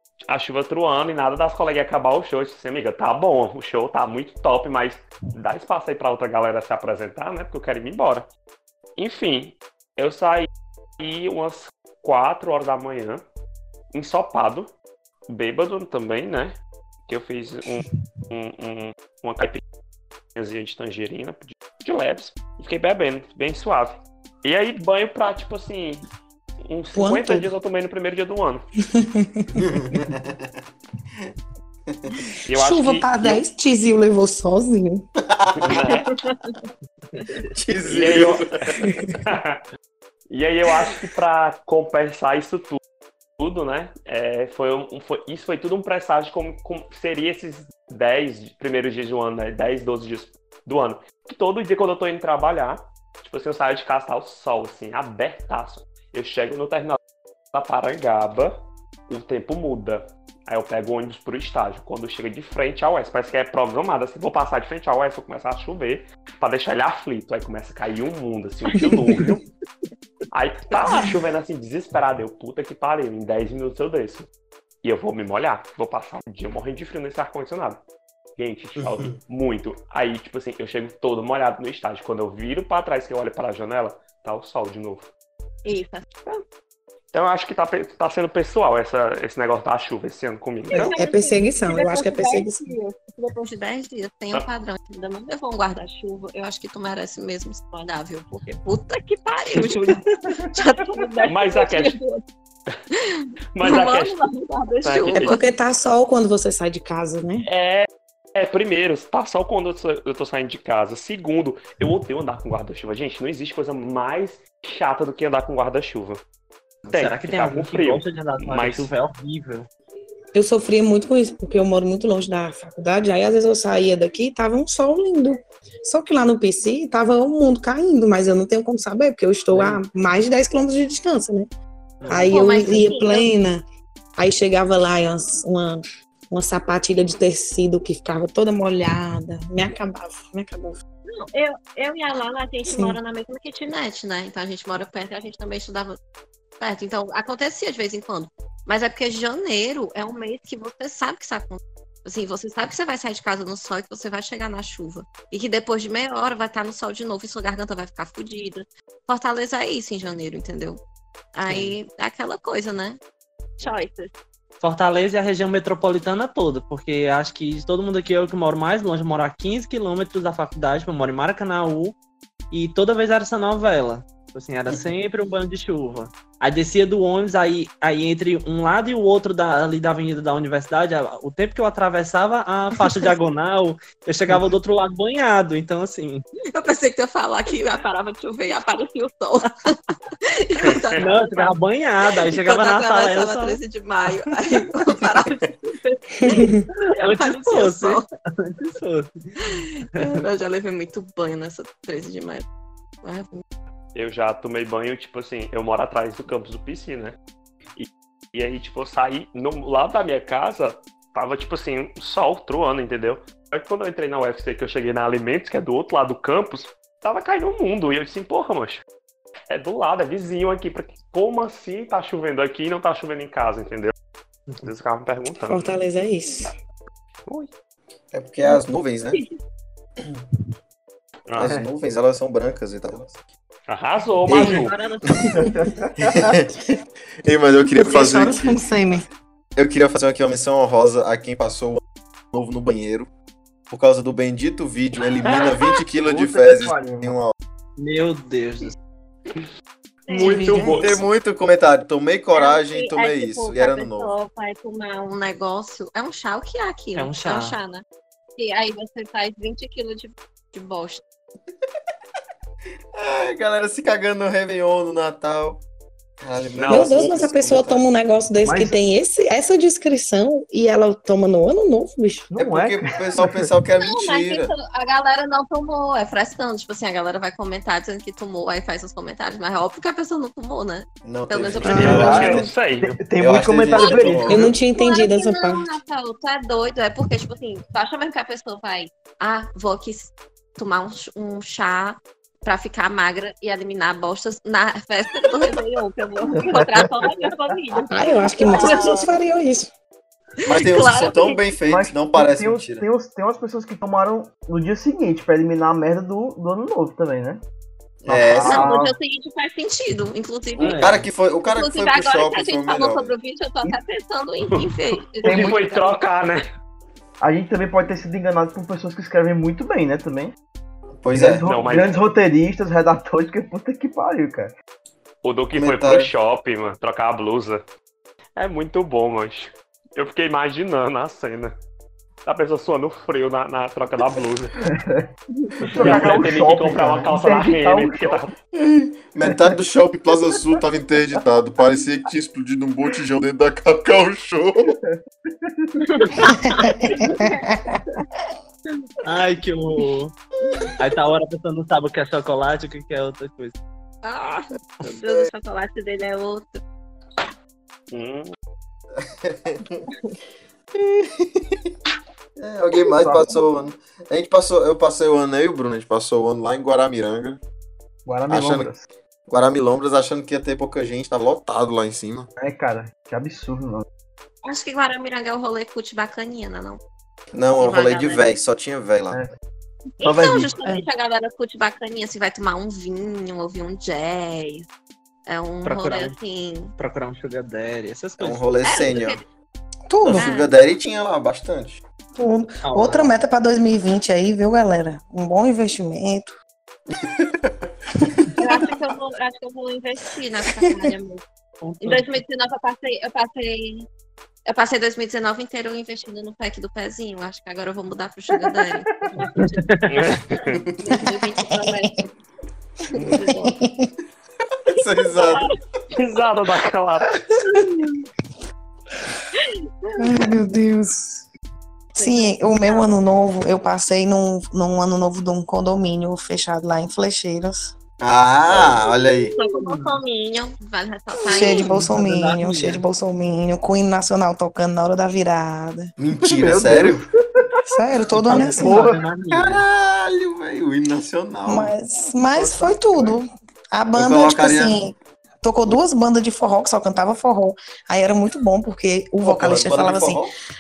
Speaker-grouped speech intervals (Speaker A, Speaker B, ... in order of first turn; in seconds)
Speaker A: 0.3-8.3, 9.0-13.2, 13.9-14.7, 15.3-16.6, 17.1-19.6, 20.4-26.0, 26.6-28.6, 32.5-33.4, 35.5-36.2, 37.8-38.5, 39.2-39.6, 40.3-42.8, 43.4-57.0, 57.5-69.4, 70.3-74.3, 74.8-77.8, 78.4-85.1, 87.1-91.0, 101.3-102.0, 103.5-104.2, 104.8-105.4, 107.4-116.2, 116.9-118.9, 190.6-191.1, 203.9-207.2, 207.8-218.8, 219.5-223.9, 224.6-225.6, 231.3-231.5, 233.7-234.8, 245.2-245.7, 250.1-251.0, 266.5-267.2, 281.6-283.0, 314.5-316.5, 321.5-321.9, 325.2-327.6, 328.4-331.5, 332.2-334.6, 335.8-338.3, 357.9-358.3, 409.9-410.6, 415.9-417.1
Speaker B: 26.9-27.5, 28.9-29.6, 32.2-35.0, 38.8-39.1, 68.8-69.2, 90.7-92.7, 105.1-107.5, 120.3-131.5, 132.1-133.6, 134.2-140.8, 142.7-143.0, 196.2-196.6, 225.4-226.5, 237.7-239.1, 250.1-250.9, 266.7-272.3, 281.7-282.1, 284.3-285.7, 297.9-299.7, 346.4-347.8, 389.9-390.3, 392.1-396.4, 411.5-412.0, 413.0-413.9, 420.0-421.3, 422.0-427.8, 431.2-435.9, 437.6-438.8, 441.5-450.3
Speaker C: 29.6-30.5, 31.9-32.1, 35.2-36.1, 37.5-38.8, 78.8-79.2, 228.1-229.2, 231.4-233.2, 234.3-235.3, 236.0-236.7, 237.2-238.6, 239.6-243.1, 243.7-247.3, 250.5-254.1, 262.9-265.6, 266.2-267.8, 272.4-274.5, 281.0-282.5, 283.2-284.5, 300.5-302.9, 308.0-308.7, 310.6-313.1, 321.0-321.4, 325.5-326.1, 338.5-344.8, 359.0-359.9, 360.8-361.7, 362.4-367.4, 368.3-368.7, 369.3-372.3, 377.3-379.2, 380.0-380.5, 388.2-389.2, 390.0-391.8, 396.9-397.5, 414.7-415.5, 428.0-429.4, 436.0-437.0, 438.3-441.7, 442.3-443.1, 444.0-444.8, 449.2-450.3
Speaker D: 85.6-86.4, 90.7-102.2, 102.9-105.4, 132.3-133.3, 141.1-146.0, 146.6-160.8, 161.3-163.0, 163.6-164.1, 186.5-191.6, 192.3-198.1, 199.4-202.4, 203.0-203.4, 234.3-235.5, 250.1-250.5, 252.3-257.8, 258.4-261.0, 273.8-282.4, 284.7-299.0, 300.4-301.4, 308.4-310.9, 311.5-316.0, 345.8-347.5, 354.0-356.6, 374.4-376.8, 377.6-378.3, 380.0-384.7, 385.3-386.7, 388.6-389.2, 390.2-390.5, 398.4-401.2, 401.8-403.9, 404.5-409.7, 410.8-412.1, 412.9-413.5, 414.7-415.5, 419.4-420.0, 421.9-422.9, 429.2-431.7
Speaker E: 116.8-119.7, 129.5-129.8, 132.0-132.4, 161.5-161.8, 164.6-172.0, 172.5-186.2, 191.0-193.6, 196.9-199.3, 247.8-248.8, 257.0-257.6, 310.6-311.1, 349.0-350.1, 350.8-353.5, 385.6-386.1, 386.8-388.5, 392.6-393.2, 401.6-402.1, 409.6-410.1, 429.4-429.9, 431.4-432.8, 438.3-439.6
Speaker F: 235.3-236.3, 246.0-247.2, 268.4-268.8, 272.3-273.5, 281.8-284.5, 296.3-297.1, 298.5-298.9, 301.7-307.4, 308.1-308.9, 315.2-315.6, 317.2-320.3, 321.1-324.5, 334.6-338.2, 344.8-345.7, 362.9-363.4, 368.1-368.9, 372.4-373.9, 436.2-437.5, 438.3-439.0